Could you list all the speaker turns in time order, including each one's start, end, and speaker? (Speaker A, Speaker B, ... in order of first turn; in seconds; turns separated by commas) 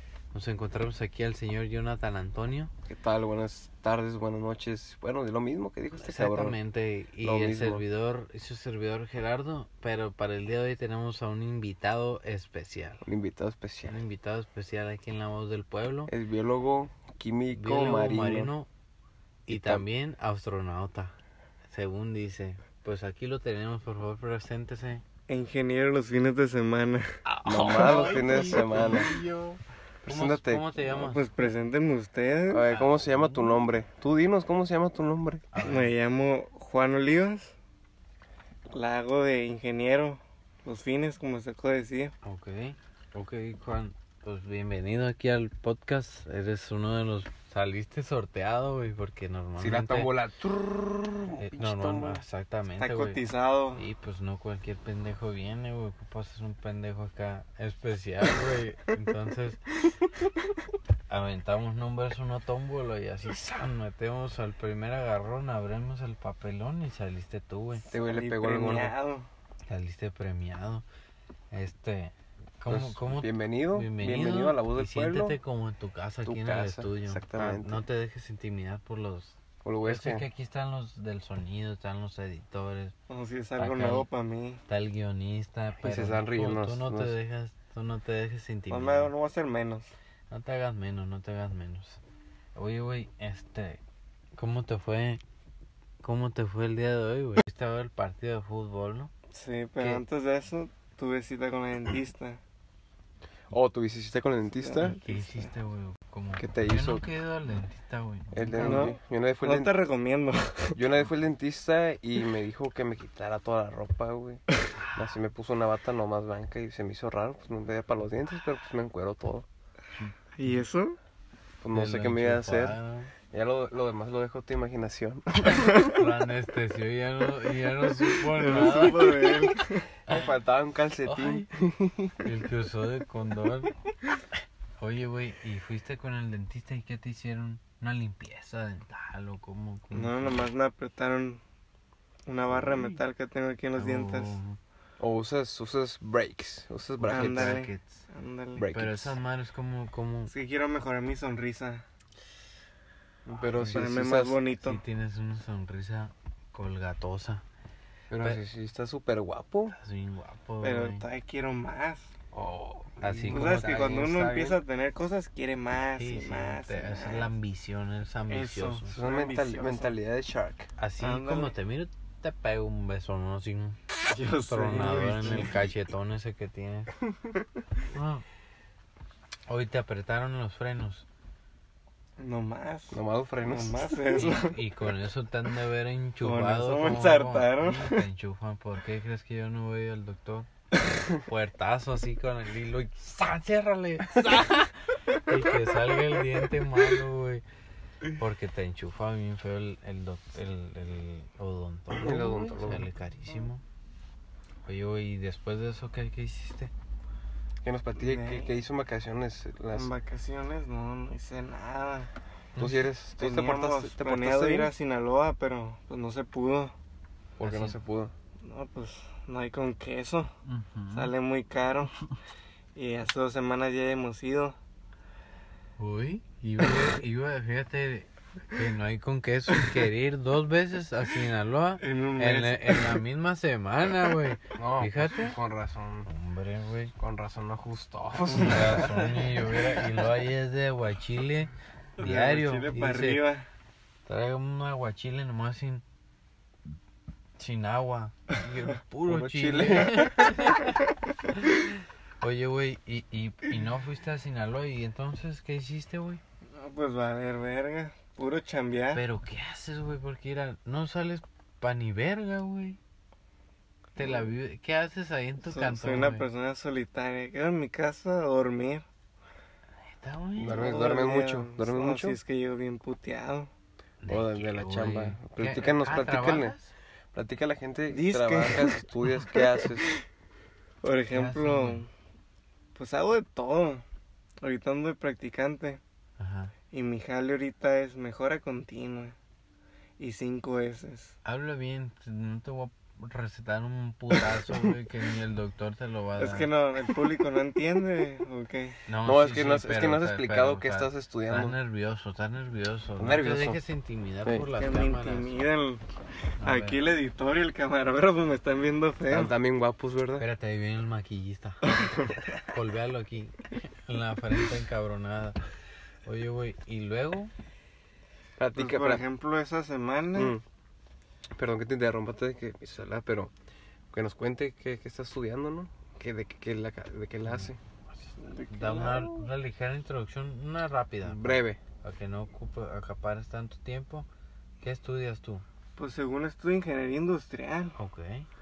Speaker A: 0.3-2.7, Speaker B: 2.9-6.6, Speaker A: 6.0-13.0, Speaker B: 7.2-7.8, Speaker B: 13.0-14.0, Speaker A: 13.8-16.1, Speaker B: 16.1-18.5, Speaker A: 17.5-18.7, Speaker A: 19.5-21.1, Speaker B: 19.5-19.9, Speaker A: 21.7-25.0, Speaker C: 25.3-27.1, Speaker A: 27.3-31.3, Speaker B: 27.4-29.1, Speaker C: 27.8-29.0, Speaker B: 30.1-30.6, Speaker C: 30.9-32.7, Speaker B: 32.5-35.5, Speaker A: 32.6-33.6, Speaker A: 35.5-36.0, Speaker C: 35.6-37.5, Speaker C: 38.7-42.1, Speaker A: 42.2-50.1, Speaker B: 49.6-52.2, Speaker A: 51.4-53.2, Speaker C: 52.8-53.9, Speaker A: 53.8-59.6, Speaker A: 61.1-67.9, Speaker C: 67.8-69.3, Speaker B: 67.9-68.9, Speaker A: 69.7-70.8, Speaker A: 71.5-82.9, Speaker B: 72.7-75.4, Speaker B: 76.3-77.8, Speaker B: 79.6-80.3, Speaker C: 83.1-84.6, Speaker A: 83.6-84.1, Speaker A: 84.7-89.1, Speaker B: 85.8-87.1, Speaker C: 88.7-89.9, Speaker A: 90.3-92.0, Speaker A: 92.5-93.8, Speaker A: 94.4-95.2, Speaker A: 96.0-99.1, Speaker C: 99.3-102.4, Speaker B: 103.5-104.9, Speaker C: 104.6-105.5, Speaker A: 104.8-108.9, Speaker B: 106.4-107.1, Speaker B: 108.3-109.7, Speaker C: 108.6-110.8, Speaker B: 110.8-114.4, Speaker A: 114.8-115.2, Speaker B: 115.0-119.5, Speaker A: 119.9-120.7, Speaker C: 120.4-121.0, Speaker B: 121.6-122.8, Speaker A: 121.7-123.1, Speaker B: 123.3-125.7, Speaker A: 125.7-129.2, Speaker C: 128.3-129.9, Speaker B: 130.1-132.2, Speaker A: 131.1-131.5, Speaker A: 132.2-133.7, Speaker A: 134.8-140.5, Speaker C: 139.9-141.4, Speaker C: 142.3-144.4, Speaker A: 142.5-143.0, Speaker A: 143.8-144.6, Speaker B: 145.0-147.6, Speaker A: 147.0-148.1, Speaker C: 147.1-148.7, Speaker B: 148.6-149.2, Speaker A: 148.7-150.3, Speaker C: 150.3-151.8, Speaker B: 153.3-154.4, Speaker A: 153.4-153.9, Speaker C: 153.6-154.8, Speaker A: 154.6-157.4, Speaker B: 158.1-159.8, Speaker A: 159.7-161.0, Speaker C: 160.6-162.1, Speaker B: 162.3-164.6, Speaker A: 163.0-164.0, Speaker C: 163.3-167.4, Speaker A: 166.0-169.0, Speaker C: 168.3-169.9, Speaker B: 168.9-170.7, Speaker A: 170.8-173.8, Speaker C: 171.0-171.6, Speaker C: 174.1-175.7, Speaker A: 174.5-176.9, Speaker B: 175.2-175.6, Speaker A: 177.9-178.2, Speaker A: 179.5-181.1, Speaker C: 182.2-184.6, Speaker B: 182.9-183.9, Speaker A: 184.1-190.5, Speaker C: 186.2-188.0, Speaker A: 191.1-197.4, Speaker A: 198.2-203.6, Speaker B: 201.9-202.9, Speaker A: 204.7-206.7, Speaker B: 207.6-209.9, Speaker C: 208.0-208.6, Speaker C: 209.7-212.1, Speaker A: 212.6-212.9, Speaker B: 212.6-214.7, Speaker C: 213.2-216.8, Speaker B: 217.4-218.1, Speaker A: 217.4-217.8, Speaker C: 218.4-220.3, Speaker A: 220.5-221.1, Speaker C: 220.9-221.9, Speaker C: 222.8-224.6, Speaker A: 225.8-235.4, Speaker C: 231.8-233.0, Speaker B: 234.6-236.1, Speaker A: 236.1-236.9, Speaker B: 237.0-239.6, Speaker A: 238.3-243.3, Speaker C: 242.0-243.5, Speaker A: 244.1-245.8, Speaker A: 247.4-251.6, Speaker B: 249.1-250.6, Speaker A: 252.2-256.2, Speaker C: 256.6-259.0, Speaker A: 258.9-262.8, Speaker C: 263.9-264.3, Speaker A: 263.9-266.3, Speaker C: 265.4-268.9, Speaker A: 269.8-270.7, Speaker B: 270.4-272.2, Speaker C: 270.5-273.5, Speaker A: 274.0-276.7, Speaker B: 274.1-276.6, Speaker B: 277.1-279.9, Speaker C: 277.9-279.9, Speaker C: 280.8-281.9, Speaker A: 281.1-281.8, Speaker C: 282.8-283.8, Speaker C: 284.4-285.8, Speaker A: 286.2-286.5, Speaker C: 286.7-289.1, Speaker C: 290.0-291.1, Speaker A: 291.2-296.5, Speaker C: 296.2-298.8, Speaker A: 298.9-305.5, Speaker B: 299.0-301.6, Speaker B: 303.0-303.6, Speaker B: 304.2-304.5, Speaker C: 304.6-305.8, Speaker A: 306.4-306.8, Speaker C: 306.4-309.3, Speaker B: 309.1-310.3, Speaker A: 310.2-311.8, Speaker C: 311.6-312.4, Speaker A: 312.5-315.4, Speaker A: 316.1-317.3, Speaker B: 318.4-319.0, Speaker C: 318.5-320.4, Speaker B: 320.1-320.4, Speaker B: 321.4-323.3, Speaker B: 323.9-327.6, Speaker A: 327.2-334.1, Speaker C: 328.2-329.3, Speaker B: 331.0-331.6, Speaker A: 334.6-335.4, Speaker C: 335.8-337.8, Speaker A: 337.8-338.3